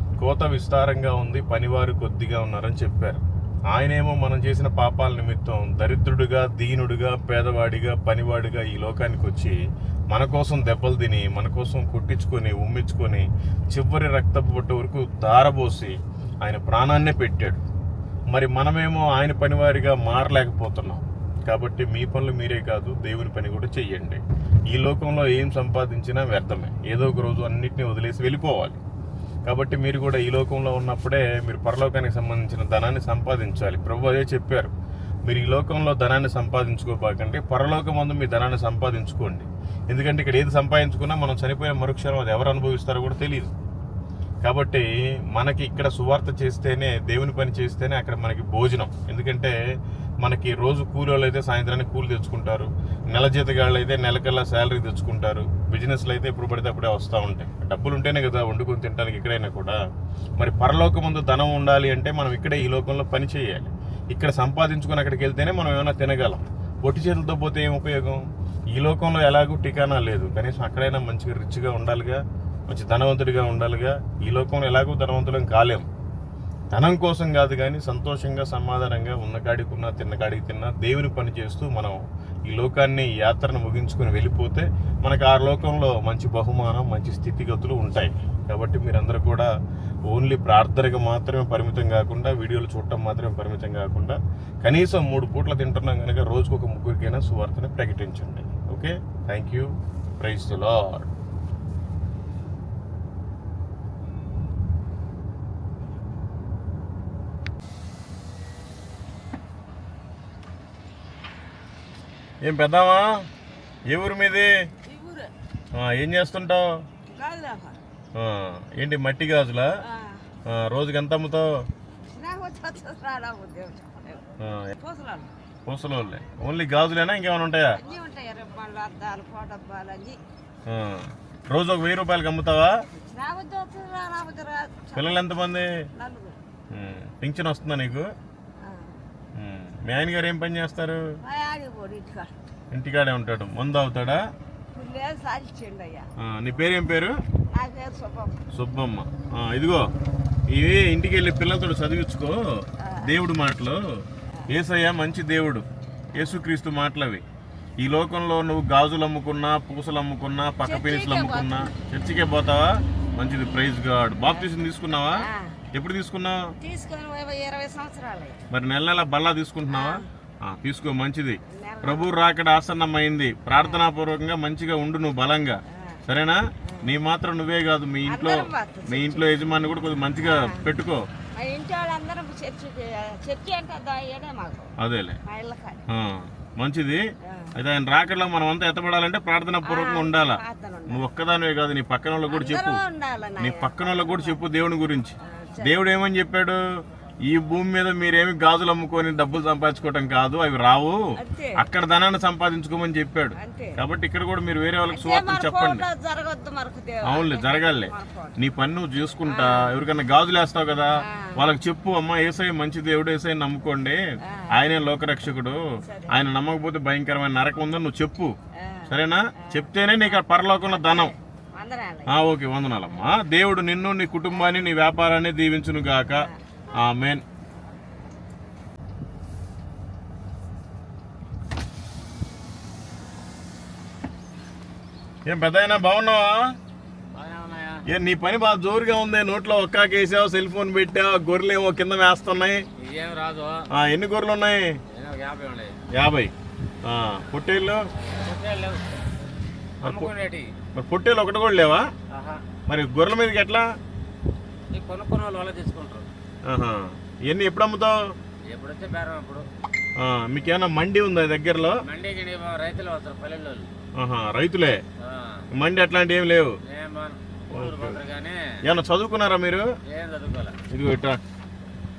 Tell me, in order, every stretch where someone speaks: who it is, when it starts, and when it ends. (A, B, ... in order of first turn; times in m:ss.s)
0:00.2-0:09.6 A
0:10.1-0:17.6 A
0:18.3-0:28.8 A
0:29.4-0:34.7 A
0:35.3-0:43.5 A
0:44.4-0:49.5 A
0:50.2-0:59.8 A
1:00.4-1:08.2 A
1:08.7-1:15.8 A
1:16.7-1:29.5 A
1:30.1-1:41.1 A
1:52.4-1:53.1 A
1:53.9-1:54.5 A
1:54.8-1:55.3 B
1:55.7-1:56.7 A
1:57.1-1:57.8 B
1:58.2-1:59.7 A
1:59.8-2:00.2 B
2:00.5-2:01.5 A
2:02.1-2:05.3 B
2:04.4-2:04.7 A
2:05.7-2:07.8 A
2:07.8-2:10.2 B
2:10.7-2:12.8 A
2:13.0-2:15.3 B
2:14.9-2:15.7 A
2:15.9-2:16.4 B
2:16.7-2:18.1 A
2:18.6-2:19.0 B
2:19.4-2:21.0 A
2:21.2-2:22.4 B
2:22.7-2:24.2 A
2:24.7-2:26.1 B
2:26.2-2:27.2 A
2:27.5-2:28.4 B
2:28.5-2:29.9 A
2:30.5-2:33.8 A
2:32.8-2:33.1 B
2:34.5-2:37.2 A
2:37.8-2:46.4 A
2:40.6-2:41.7 B
2:45.1-2:45.6 B
2:46.6-2:48.4 B
2:48.5-3:01.0 A
2:49.7-2:50.1 B
2:51.5-2:52.1 B
2:55.7-2:56.0 B
2:56.6-2:56.9 B
2:58.0-2:59.4 B
3:00.2-3:00.7 B
3:01.4-3:04.7 B
3:04.8-3:05.2 A
3:05.2-3:05.9 B
3:05.9-3:07.0 A
3:07.2-3:07.5 B
3:07.5-3:12.8 A
3:09.6-3:11.0 B
3:12.3-3:14.4 B
3:13.4-3:16.6 A
3:15.2-3:15.8 B
3:17.3-3:21.0 A
3:21.2-3:21.6 B
3:21.6-3:25.8 A
3:23.4-3:23.8 B
3:24.9-3:28.4 B
3:27.0-3:34.0 A
3:29.2-3:29.7 B
3:31.0-3:31.4 B
3:34.2-3:34.5 B
3:34.5-3:38.3 A
3:35.8-3:36.2 B
3:38.5-3:42.1 B
3:38.9-3:41.1 A
3:42.1-3:46.3 A
3:46.1-3:46.4 B
3:46.8-3:47.2 A
3:55.2-3:56.5 A
3:57.1-3:57.8 C
3:57.9-4:02.6 A
4:02.8-4:03.6 C
4:03.7-4:04.6 A
4:04.9-4:05.8 C
4:05.9-4:06.3 A
4:06.8-4:07.8 A
4:08.1-4:09.0 C
4:09.8-4:10.1 A
4:09.8-4:10.5 C
4:10.7-4:11.9 A
4:12.1-4:12.4 C
4:12.7-4:13.7 A
4:14.7-4:16.1 C
4:16.5-4:18.0 A
4:18.5-4:19.4 C
4:20.0-4:21.8 A
4:21.8-4:23.7 C
4:24.0-4:24.8 A
4:25.0-4:25.4 C
4:25.6-4:26.5 A
4:26.7-4:28.4 C
4:27.5-4:28.0 A
4:28.6-4:29.7 A
4:29.9-4:30.6 C
4:30.7-4:31.2 A